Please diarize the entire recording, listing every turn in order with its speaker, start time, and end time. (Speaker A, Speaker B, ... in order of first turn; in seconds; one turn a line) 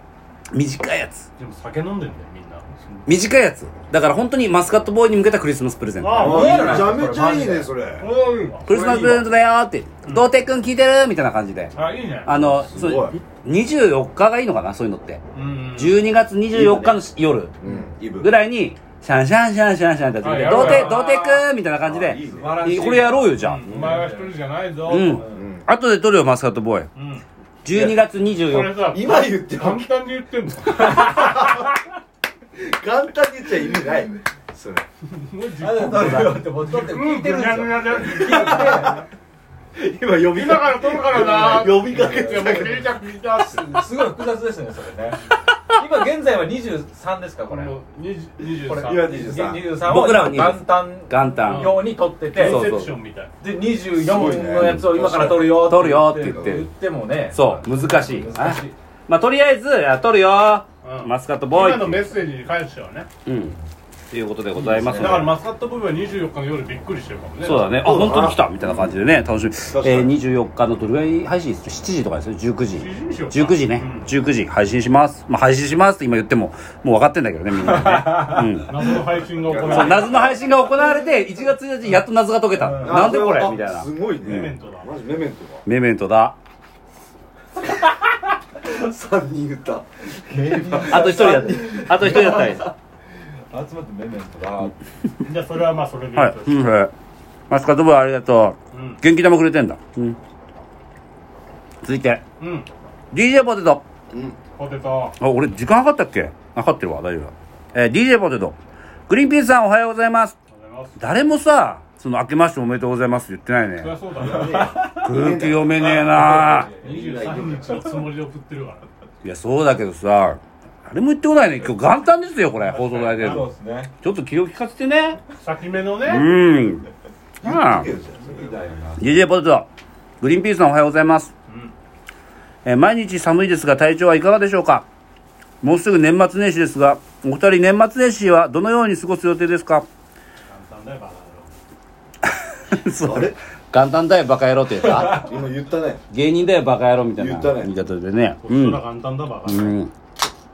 Speaker A: 0.5-1.3
Speaker B: 1.4-3.1
Speaker A: 3.0-6.4
Speaker B: 6.0-7.0
Speaker C: 6.1-8.1
Speaker D: 6.2-7.7
Speaker B: 8.0-8.7
Speaker A: 8.7-11.7
Speaker D: 8.7-9.2
Speaker B: 11.7-12.3
Speaker A: 12.2-15.2
Speaker C: 12.3-13.2
Speaker B: 15.3-16.0
Speaker A: 15.7-17.5
Speaker C: 16.5-17.0
Speaker C: 17.6-18.3
Speaker A: 18.2-23.6
Speaker B: 20.2-21.1
Speaker D: 20.4-21.4
Speaker C: 21.8-22.6
Speaker D: 22.2-24.3
Speaker B: 23.4-25.3
Speaker A: 24.9-26.9
Speaker D: 25.1-25.4
Speaker C: 25.3-25.7
Speaker B: 26.9-27.2
Speaker A: 27.6-28.8
Speaker C: 27.7-28.0
Speaker B: 28.4-31.6
Speaker C: 28.9-29.9
Speaker C: 31.2-31.4
Speaker C: 32.5-34.8
Speaker B: 35.1-39.0
Speaker D: 35.6-39.0
Speaker C: 38.0-39.0
Speaker C: 39.8-42.8
Speaker B: 40.3-44.0
Speaker D: 41.7-42.8
Speaker D: 43.5-47.7
Speaker B: 47.5-49.1
Speaker D: 48.7-52.7
Speaker C: 48.8-49.7
Speaker A: 49.8-52.9
Speaker B: 51.4-53.3
Speaker D: 53.4-58.7
Speaker C: 53.9-55.6
Speaker A: 55.4-56.7
Speaker C: 56.3-56.6
Speaker A: 57.3-62.1
Speaker B: 60.8-63.1
Speaker A: 63.2-63.6
Speaker A: 64.1-65.3
Speaker D: 64.6-65.2
Speaker B: 64.9-67.8
Speaker A: 67.4-78.7
Speaker C: 67.8-68.9
Speaker C: 69.6-70.2
Speaker B: 72.7-74.1
Speaker B: 77.5-80.2
Speaker C: 79.4-80.4
Speaker A: 79.6-84.5
Speaker D: 82.5-83.1
Speaker C: 82.8-85.6
Speaker B: 84.2-84.9
Speaker A: 85.6-86.3
Speaker C: 88.6-89.8
Speaker D: 90.1-92.6
Speaker C: 90.5-92.7
Speaker A: 90.7-92.7
Speaker D: 93.5-94.7
Speaker B: 95.2-96.8
Speaker A: 96.2-96.9
Speaker A: 97.5-100.2
Speaker B: 98.7-99.0
Speaker A: 101.8-102.2
Speaker B: 102.4-102.7
Speaker A: 103.1-103.8
Speaker C: 104.1-104.4
Speaker B: 104.6-105.2
Speaker A: 105.2-108.5
Speaker A: 109.1-110.3
Speaker B: 110.5-111.0
Speaker A: 111.0-113.9
Speaker B: 113.8-114.8
Speaker C: 114.2-116.1
Speaker D: 114.4-115.0
Speaker A: 114.9-116.7
Speaker D: 115.8-118.0
Speaker C: 116.8-117.9
Speaker B: 116.8-118.8
Speaker A: 119.2-123.5
Speaker B: 122.6-123.5
Speaker D: 123.2-123.9
Speaker A: 124.0-125.2
Speaker B: 125.4-126.4
Speaker A: 126.0-126.9
Speaker A: 127.4-127.9
Speaker C: 127.4-128.6
Speaker D: 128.2-129.1
Speaker A: 129.0-129.7
Speaker A: 130.2-131.3
Speaker B: 131.5-131.7
Speaker A: 132.6-134.8
Speaker A: 135.6-139.9
Speaker B: 140.4-141.5
Speaker A: 142.7-145.3
Speaker C: 143.0-143.3
Speaker C: 145.0-146.0
Speaker A: 146.1-148.8
Speaker C: 147.2-147.7
Speaker B: 148.4-149.8
Speaker A: 149.4-149.9